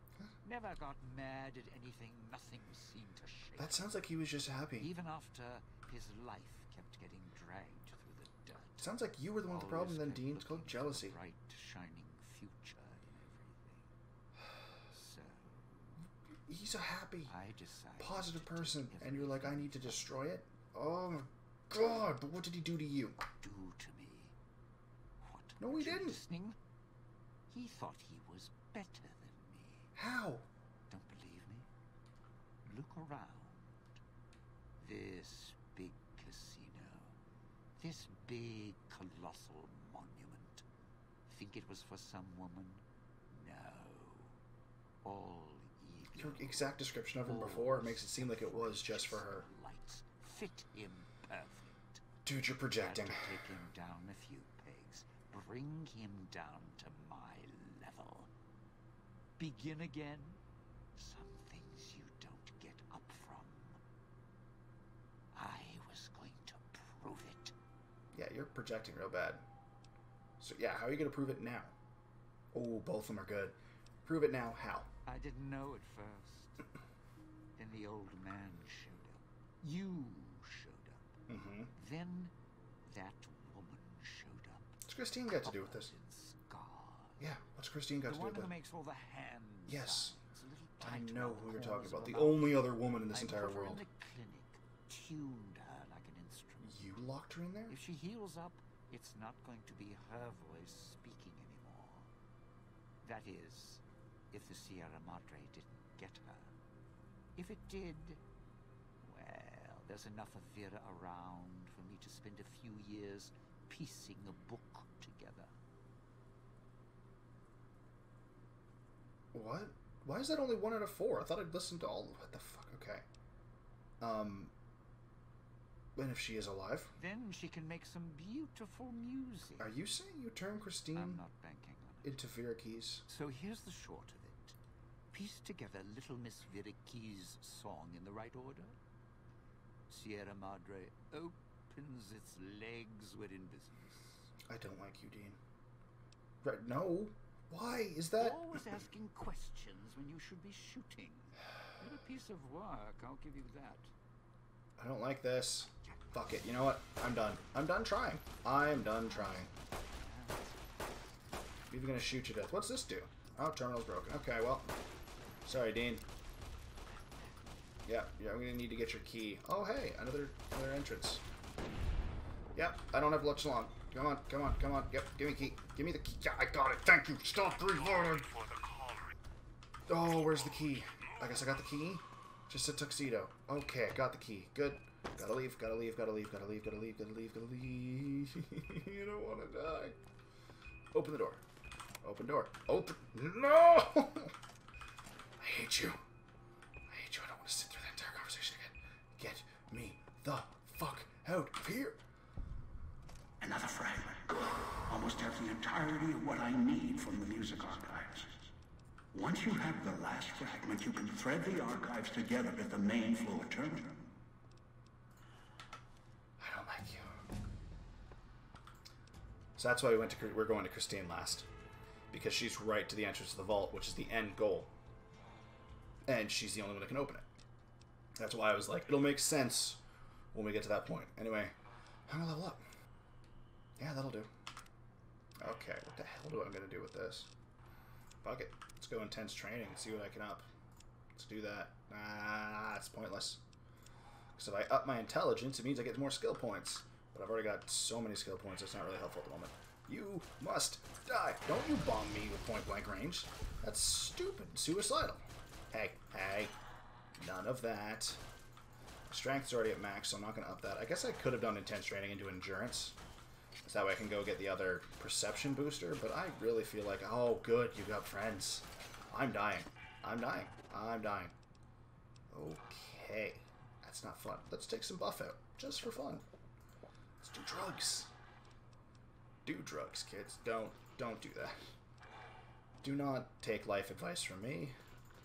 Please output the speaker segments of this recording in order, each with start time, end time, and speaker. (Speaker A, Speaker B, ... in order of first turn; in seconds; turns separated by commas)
Speaker A: 0.4-3.8, Speaker B: 3.6-4.9, Speaker A: 4.8-8.8, Speaker B: 8.8-11.1, Speaker A: 9.5-13.9, Speaker A: 14.9-15.9, Speaker B: 16.5-17.3, Speaker A: 17.3-19.9, Speaker B: 18.0-23.2, Speaker A: 23.4-24.3, Speaker A: 25.2-26.6, Speaker B: 25.6-26.2, Speaker A: 27.5-29.9, Speaker B: 29.9-30.5, Speaker A: 30.9-31.7, Speaker A: 32.6-33.8, Speaker A: 34.8-37.1, Speaker A: 37.8-40.6, Speaker A: 41.3-44.4, Speaker A: 45.0-46.7, Speaker B: 46.1-49.5, Speaker A: 47.2-52.0, Speaker B: 52.2-53.2, Speaker A: 52.8-58.3, Speaker A: 59.4-60.4, Speaker A: 61.0-63.8, Speaker A: 65.3-67.5, Speaker B: 68.1-69.4, Speaker B: 70.4-71.7, Speaker B: 72.5-74.9, Speaker A: 75.0-76.6, Speaker A: 77.5-81.2, Speaker B: 81.3-81.7, Speaker A: 81.7-82.3, Speaker A: 82.8-84.7, Speaker B: 84.9-85.9, Speaker A: 85.4-87.2, Speaker B: 87.2-88.5, Speaker A: 88.1-96.8, Speaker B: 89.7-90.2, Speaker B: 90.8-93.8, Speaker B: 96.6-97.8, Speaker A: 97.7-102.1, Speaker A: 103.0-106.5, Speaker A: 107.3-108.2, Speaker A: 109.0-115.5, Speaker B: 119.3-123.0, Speaker B: 124.0-124.5, Speaker B: 126.0-126.9, Speaker A: 127.0-129.7, Speaker B: 129.6-131.2, Speaker A: 130.9-132.2, Speaker B: 132.0-133.0, Speaker A: 133.1-134.6, Speaker A: 135.1-138.7, Speaker A: 139.9-144.3, Speaker B: 144.5-145.4, Speaker B: 146.4-148.6, Speaker A: 148.2-153.9, Speaker B: 154.8-159.5, Speaker A: 155.8-156.4, Speaker A: 158.8-161.0, Speaker B: 161.7-164.7, Speaker B: 165.4-166.0, Speaker B: 167.8-171.2, Speaker B: 172.5-178.3, Speaker C: 177.6-179.2, Speaker B: 179.9-190.0, Speaker C: 180.9-181.3, Speaker B: 190.9-191.4, Speaker B: 192.0-194.3, Speaker B: 195.4-196.0, Speaker B: 196.9-202.0, Speaker C: 203.4-208.3, Speaker C: 209.1-214.0, Speaker B: 216.4-217.1, Speaker B: 219.6-221.5, Speaker B: 222.1-224.7, Speaker B: 226.1-227.2, Speaker B: 228.2-229.8, Speaker B: 230.3-231.5, Speaker B: 232.1-232.6, Speaker B: 233.8-234.3, Speaker B: 235.4-237.3, Speaker B: 238.2-240.5, Speaker B: 241.1-243.4, Speaker B: 244.4-256.5, Speaker B: 257.2-258.2, Speaker B: 259.1-262.9, Speaker B: 263.6-271.3, Speaker B: 272.3-276.2, Speaker B: 277.2-278.1, Speaker B: 279.4-281.7, Speaker B: 282.8-284.7